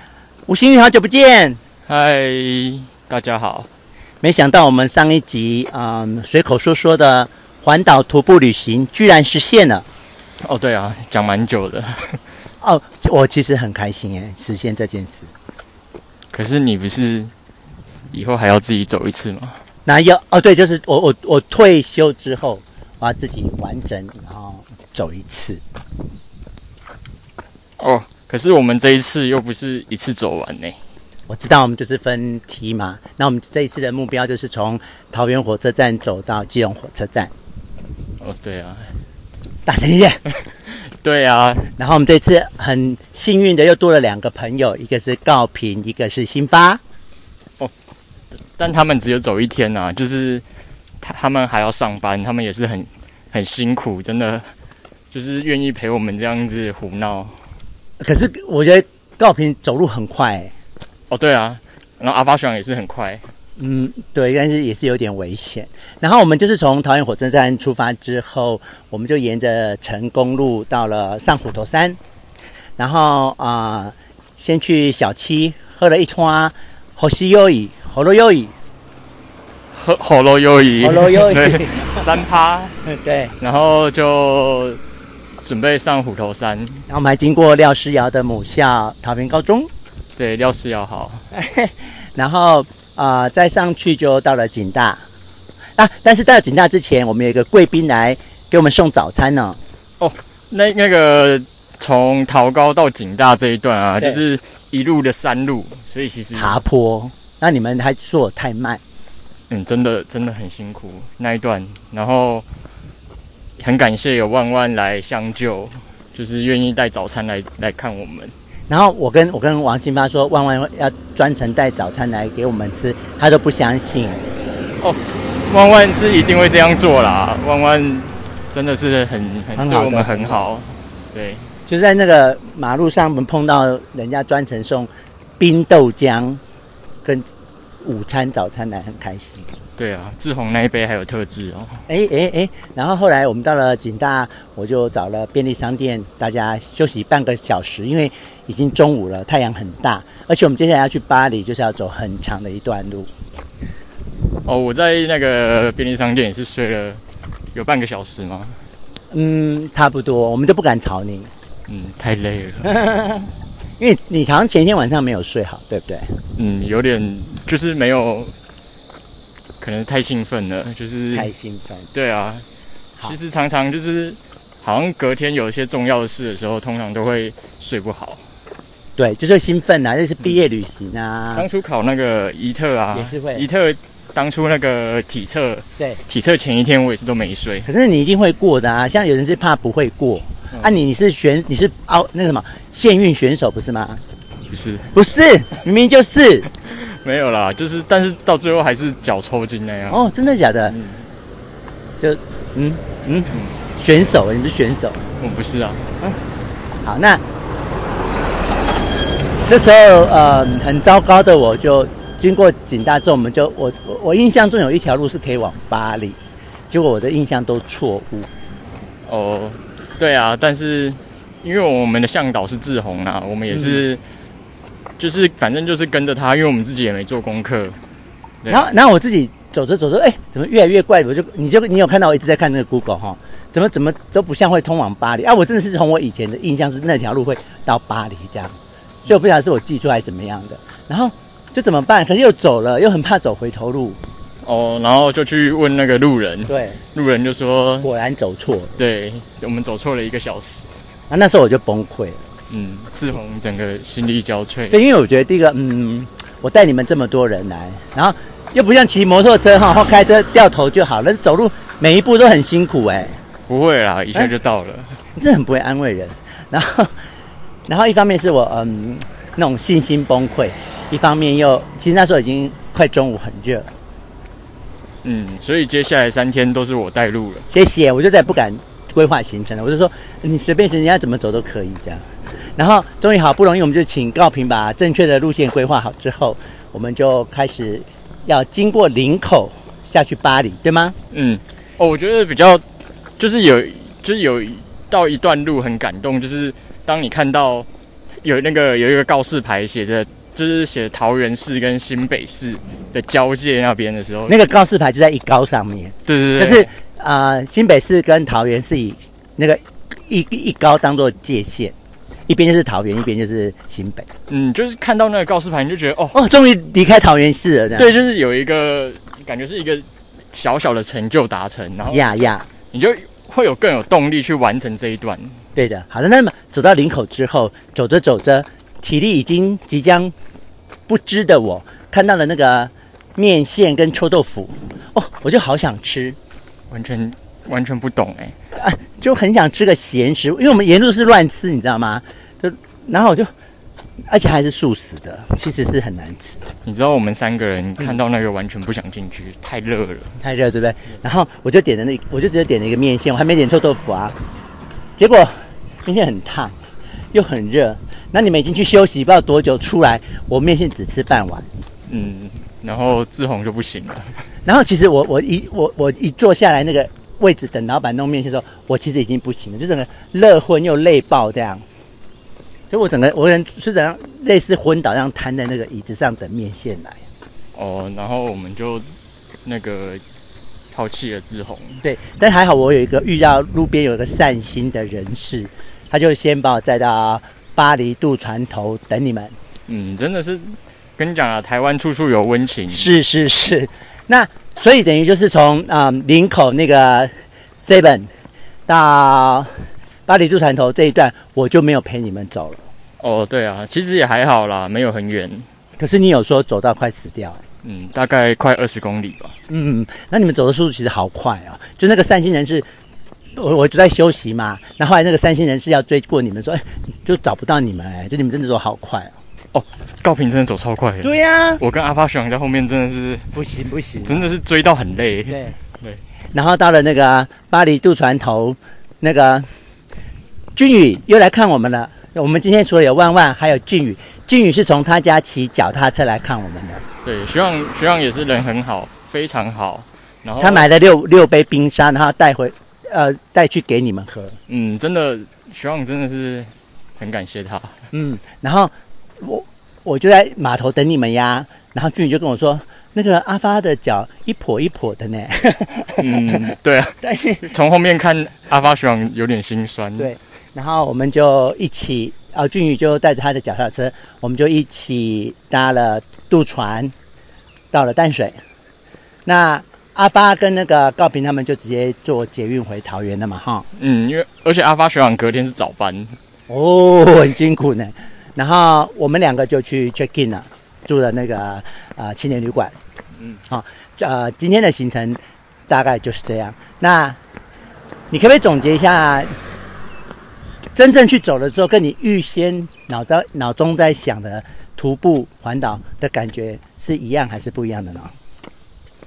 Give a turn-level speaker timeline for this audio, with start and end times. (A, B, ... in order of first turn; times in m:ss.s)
0:00.5-0:01.6 A
0:01.9-0:03.7 B
0:04.2-0:09.9 A
0:10.4-0:12.2 B
0:12.6-0:15.3 A
0:16.3-0:17.3 B
0:18.1-0:19.6 B
0:19.8-0:25.6 A
0:27.8-0:30.8 B
0:31.3-0:37.3 A
0:38.2-0:38.9 B
0:39.7-0:40.2 A
0:40.6-0:41.7 B
0:41.7-0:46.8 A
0:48.6-0:50.4 B
0:51.0-0:54.5 B
0:55.1-0:57.4 B
0:58.0-1:00.5 A
1:01.1-1:03.2 B
1:03.6-1:12.0 A
1:12.8-1:18.5 A
1:19.7-1:22.8 B
1:20.8-1:22.1 A
1:22.9-1:23.4 A
1:23.4-1:24.8 B
1:25.4-1:26.9 B
1:26.9-1:29.7 A
1:30.2-1:31.2 B
1:31.3-1:35.0 A
1:35.8-1:39.6 A
1:40.0-1:46.6 B
1:46.4-1:48.8 A
1:49.5-1:52.5 B
1:53.6-1:58.3 B
1:58.7-2:04.3 A
2:04.8-2:11.5 B
2:09.6-2:10.4 A
2:11.7-2:16.4 A
2:17.8-2:19.5 A
2:19.8-2:21.8 B
2:21.9-2:33.1 A
2:34.4-2:37.0 B
2:37.5-2:38.6 B
2:39.1-2:41.3 A
2:41.7-2:42.8 B
2:42.6-2:46.2 A
2:46.3-2:48.4 B
2:49.6-2:51.3 B
2:51.1-2:51.9 A
2:51.9-2:52.5 B
2:53.0-2:58.2 B
2:59.0-3:01.5 A
3:01.3-3:07.7 B
3:02.9-3:03.5 A
3:07.6-3:14.0 A
3:14.5-3:15.0 B
3:14.9-3:16.5 A
3:16.5-3:20.0 B
3:19.9-3:20.8 A
3:20.7-3:21.1 B
3:22.0-3:25.0 A
3:23.3-3:23.6 B
3:25.2-3:25.9 B
3:26.8-3:27.2 A
3:29.4-3:36.2 A
3:36.7-3:38.3 A
3:39.0-3:44.0 B
3:43.5-3:43.8 A
3:45.0-3:47.8 B
3:48.4-3:48.7 B
3:48.5-4:04.0 A
4:04.4-4:07.9 B
4:06.5-4:06.8 A
4:07.8-4:08.8 A
4:08.8-4:10.7 B
4:11.1-4:12.2 A
4:12.5-4:14.8 B
4:14.7-4:23.2 A
4:23.5-4:25.0 B
4:25.2-4:27.0 A
4:27.7-4:33.7 A
4:35.0-4:37.5 B
4:37.5-4:51.0 A
4:51.1-4:52.6 B
4:53.2-4:57.7 B
4:58.2-5:04.4 B
5:04.3-5:11.8 A
5:06.1-5:06.7 B
5:12.3-5:14.1 A
5:14.3-5:16.2 B
5:16.1-5:17.9 A
5:17.8-5:25.4 B
5:21.9-5:22.5 A
5:25.6-5:30.1 A
5:30.9-5:36.2 A
5:36.7-5:38.4 B
5:38.5-5:43.3 A
5:44.1-5:46.4 A
5:46.6-5:50.2 B
5:50.2-5:54.2 A
5:55.0-5:56.6 A
5:57.1-6:01.5 A
6:01.9-6:04.2 B
6:04.5-6:11.6 A
6:12.7-6:17.0 A
6:17.5-6:18.9 B
6:19.4-6:20.0 B
6:20.7-6:21.8 B
6:21.8-6:29.4 A
6:29.7-6:32.9 B
6:32.7-6:38.1 A
6:38.7-6:42.7 A
6:43.0-6:45.5 B
6:45.8-6:47.4 A
6:47.6-6:49.4 B
6:49.5-6:52.7 A
6:53.4-6:59.2 A
6:59.5-7:03.3 B
7:01.0-7:01.6 A
7:03.3-7:04.3 A
7:04.0-7:06.0 B
7:05.3-7:05.6 A
7:06.3-7:09.5 A
7:10.6-7:16.8 A
7:17.0-7:20.7 B
7:20.4-7:24.4 A
7:24.5-7:27.8 B
7:27.9-7:36.5 A
7:36.0-7:40.1 B
7:37.0-7:37.5 A
7:40.0-7:46.9 A
7:47.7-7:48.4 A
7:49.3-7:53.7 A
7:53.8-7:56.2 B
7:56.5-8:02.8 A
8:03.5-8:07.2 A
8:08.1-8:09.4 A
8:10.8-8:18.1 A